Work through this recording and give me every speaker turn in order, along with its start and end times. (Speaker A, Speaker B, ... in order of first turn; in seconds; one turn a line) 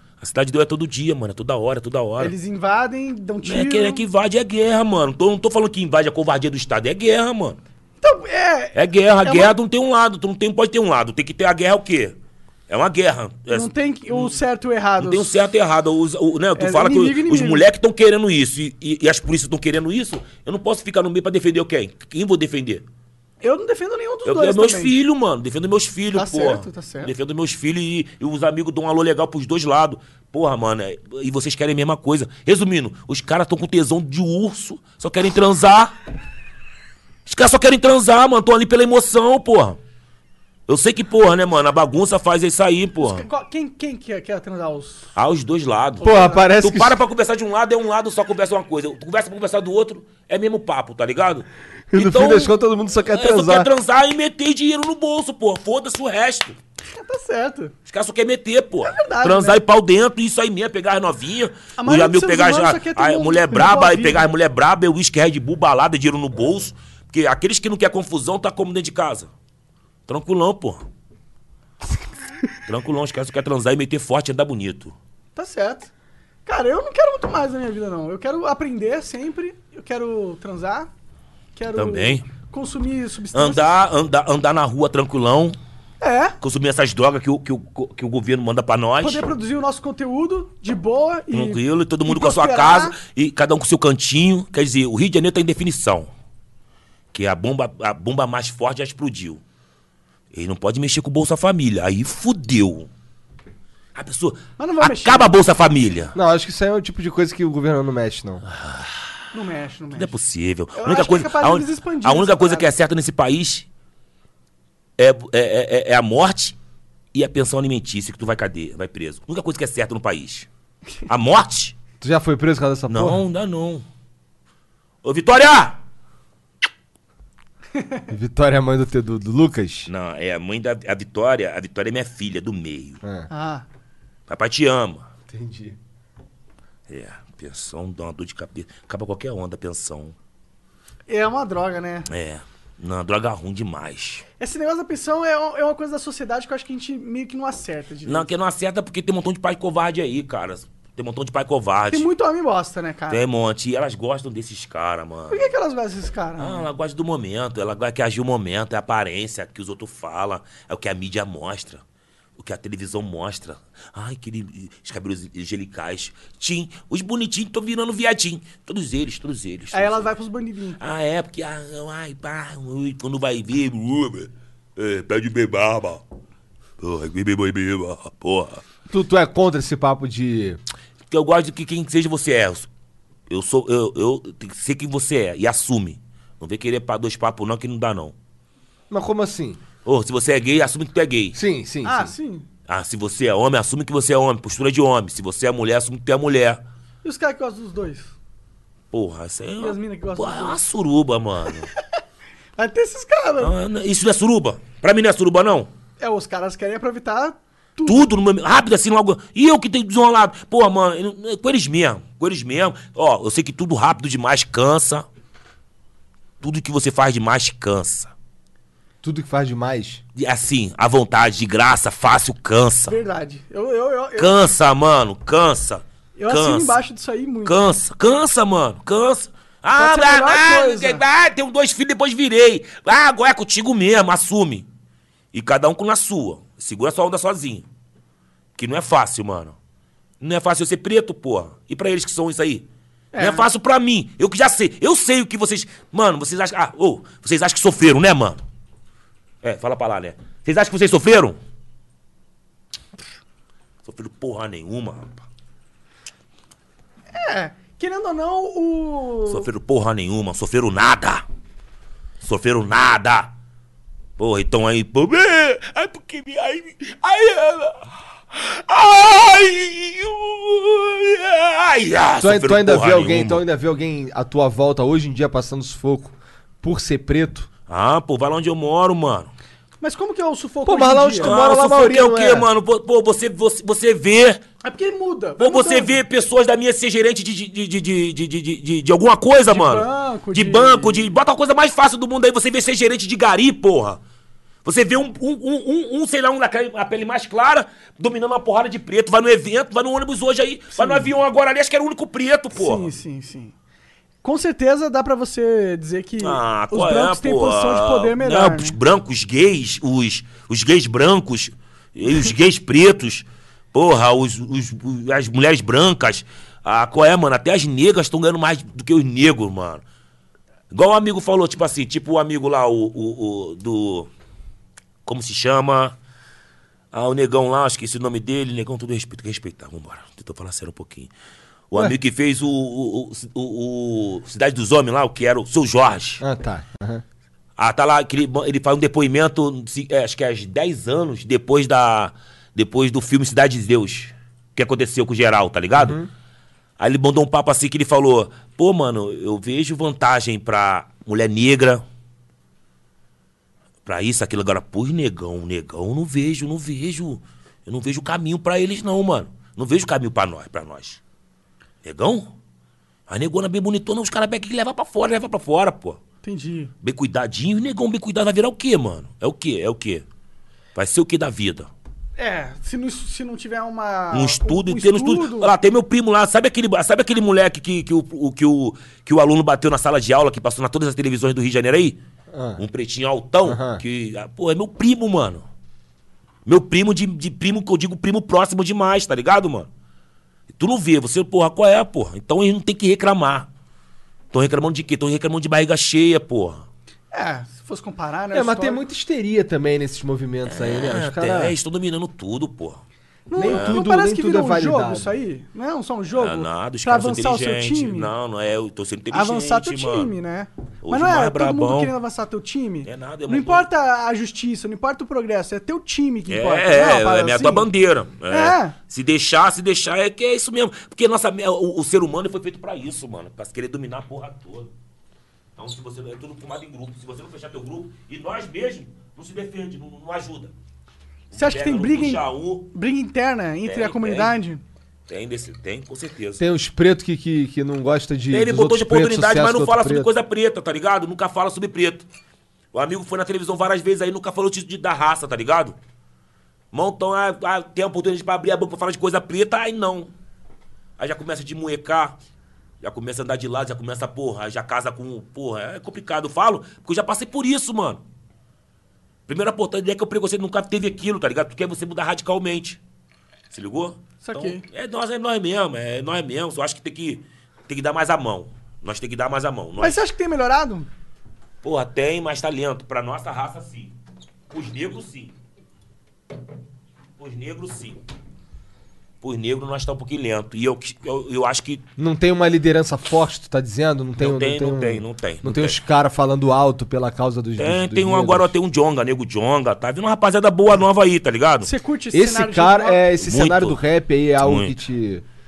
Speaker A: 0.2-2.3
Speaker B: 2.2-4.0
Speaker A: 3.4-7.6
Speaker B: 8.0-9.5
Speaker A: 8.7-12.2
Speaker A: 12.7-14.4
Speaker B: 13.5-15.3
Speaker A: 15.0-22.8
Speaker B: 16.6-17.6
Speaker B: 23.4-24.9
Speaker A: 24.2-35.9
Speaker B: 26.1-27.1
Speaker A: 37.2-39.8
Speaker A: 40.7-43.2
Speaker B: 43.0-45.0
Speaker A: 45.1-52.5
Speaker B: 46.0-46.4
Speaker C: 46.0-47.0
Speaker C: 51.9-53.7
Speaker A: 53.1-56.6
Speaker B: 56.9-57.7
Speaker A: 57.9-69.3
Speaker B: 58.8-59.6
Speaker B: 61.8-64.3
Speaker A: 70.1-70.8
Speaker A: 72.7-74.9
Speaker B: 75.3-75.9
Speaker B: 76.4-80.9
Speaker B: 81.5-83.7
Speaker A: 81.7-82.2
Speaker A: 83.3-85.6
Speaker B: 86.0-86.3
Speaker A: 86.4-89.3
Speaker B: 89.0-93.0
Speaker A: 91.3-96.1
Speaker A: 97.1-99.4
Speaker A: 100.3-102.9
Speaker A: 103.9-106.1
Speaker B: 104.6-105.3
Speaker C: 106.1-108.4
Speaker A: 108.5-109.0
Speaker B: 109.3-110.1
Speaker A: 109.9-113.7
Speaker B: 110.8-112.7
Speaker A: 115.0-116.5
Speaker A: 117.1-120.5
Speaker A: 121.1-121.8
Speaker C: 122.0-123.2
Speaker A: 122.9-123.8
Speaker A: 125.0-125.8
Speaker B: 127.7-128.0
Speaker C: 128.1-129.9
Speaker A: 129.9-133.0
Speaker C: 133.0-133.3
Speaker B: 133.3-133.7
Speaker A: 134.3-135.0
Speaker C: 135.3-135.8
Speaker A: 136.9-140.1
Speaker B: 141.1-142.1
Speaker A: 142.1-144.2
Speaker B: 144.4-148.3
Speaker A: 148.1-152.1
Speaker B: 151.9-153.2
Speaker A: 153.1-155.5
Speaker B: 155.3-156.7
Speaker A: 156.4-161.8
Speaker A: 162.4-170.1
Speaker B: 169.7-170.8
Speaker A: 170.8-176.0
Speaker A: 176.8-178.6
Speaker C: 178.9-180.6
Speaker A: 181.1-182.7
Speaker A: 183.3-188.1
Speaker C: 188.9-189.6
Speaker A: 189.8-191.4
Speaker C: 191.3-192.1
Speaker B: 191.8-192.5
Speaker A: 192.7-196.6
Speaker B: 197.0-198.1
Speaker A: 198.9-201.7
Speaker B: 199.6-200.6
Speaker B: 202.6-203.5
Speaker A: 203.4-205.7
Speaker B: 206.0-208.1
Speaker A: 207.8-215.0
Speaker A: 216.4-218.1
Speaker C: 219.0-220.0
Speaker A: 220.2-223.0
Speaker B: 222.9-224.4
Speaker A: 224.2-226.8
Speaker B: 226.2-227.6
Speaker A: 227.4-234.7
Speaker B: 229.8-231.0
Speaker A: 235.3-237.6
Speaker A: 238.6-239.6
Speaker A: 240.2-248.4
Speaker B: 243.1-243.4
Speaker A: 249.4-251.4
Speaker A: 253.8-255.2
Speaker B: 257.1-259.4
Speaker A: 259.3-261.2
Speaker A: 262.2-263.3
Speaker A: 264.2-273.4
Speaker C: 272.2-277.5
Speaker A: 277.7-279.3
Speaker B: 279.8-281.3
Speaker C: 280.6-282.5
Speaker A: 281.2-284.4
Speaker B: 284.6-286.0
Speaker A: 285.4-294.0
Speaker B: 289.5-291.1
Speaker A: 294.6-302.9
Speaker B: 300.7-301.1
Speaker B: 302.5-303.5
Speaker B: 304.2-308.8
Speaker A: 306.2-319.8
Speaker A: 320.7-324.1
Speaker A: 325.1-325.9
Speaker A: 326.9-331.1
Speaker A: 331.7-336.2
Speaker C: 336.2-337.0
Speaker A: 337.6-346.0
Speaker C: 345.8-346.1
Speaker A: 346.8-351.8
Speaker A: 353.9-361.0
Speaker A: 361.8-362.3
Speaker A: 363.1-366.0
Speaker B: 366.2-366.7
Speaker A: 366.8-370.0
Speaker A: 370.7-371.7
Speaker B: 372.2-375.5
Speaker A: 374.1-382.0
Speaker C: 382.3-382.6
Speaker A: 382.6-385.4
Speaker C: 383.4-383.8
Speaker A: 386.4-389.7
Speaker A: 390.5-393.5
Speaker A: 394.3-396.6
Speaker B: 397.1-398.8
Speaker C: 398.3-401.5
Speaker A: 400.5-402.8
Speaker B: 403.3-408.1
Speaker C: 403.4-405.1
Speaker A: 403.4-403.8
Speaker A: 406.1-410.1
Speaker B: 409.1-417.6
Speaker A: 410.8-411.9
Speaker A: 412.8-413.6
Speaker A: 416.3-424.7
Speaker B: 418.3-418.7
Speaker A: 425.6-430.5
Speaker A: 431.3-432.7
Speaker B: 431.3-434.6
Speaker A: 433.6-434.4
Speaker A: 435.1-436.4
Speaker C: 436.4-440.1
Speaker A: 438.3-442.1
Speaker A: 442.7-445.8
Speaker A: 446.7-450.1
Speaker A: 451.0-452.2
Speaker A: 452.8-458.0
Speaker A: 459.3-462.8
Speaker A: 463.5-470.0
Speaker B: 464.2-464.6
Speaker B: 469.8-470.9
Speaker A: 471.6-473.9
Speaker A: 474.5-475.3
Speaker A: 477.2-478.0
Speaker A: 479.2-481.8
Speaker C: 482.0-488.5
Speaker A: 484.2-485.8
Speaker A: 487.6-491.7
Speaker B: 491.6-493.1
Speaker C: 492.1-495.2
Speaker A: 493.2-493.8
Speaker A: 494.4-494.7